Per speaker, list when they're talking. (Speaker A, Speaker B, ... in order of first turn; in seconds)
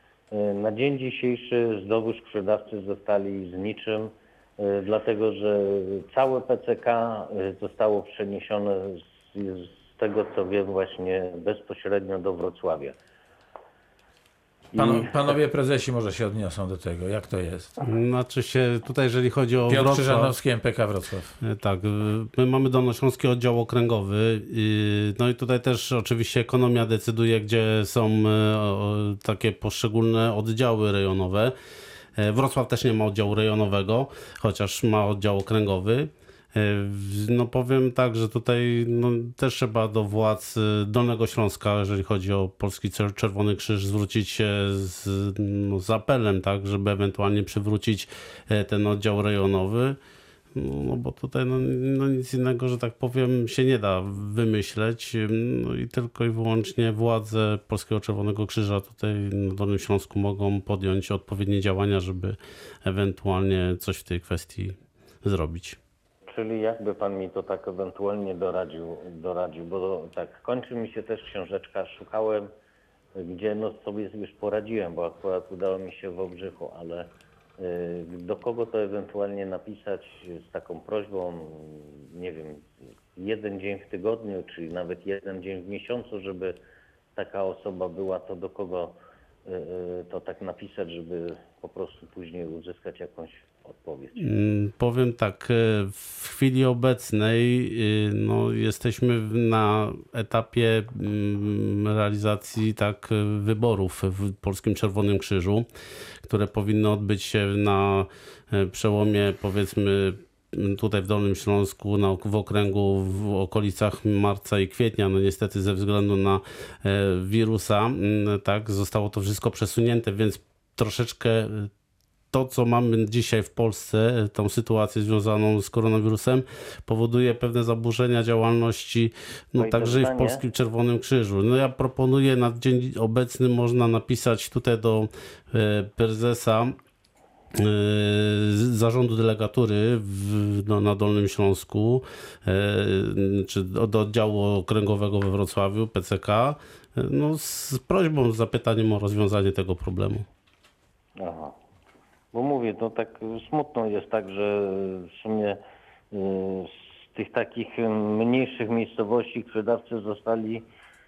Speaker A: 0.3-12.9, 14.7-15.1, 66.3-72.5, 73.2-86.6, 87.2-88.9, 89.5-94.2, 129.6-130.4, 151.2-151.5, 152.3-160.6
Speaker B: 14.7-17.7, 19.7-21.3
Speaker C: 17.8-20.3, 21.4-31.5, 32.2-50.0, 50.5-65.8, 94.2-105.7, 106.2-121.7, 122.3-136.7, 137.6-150.2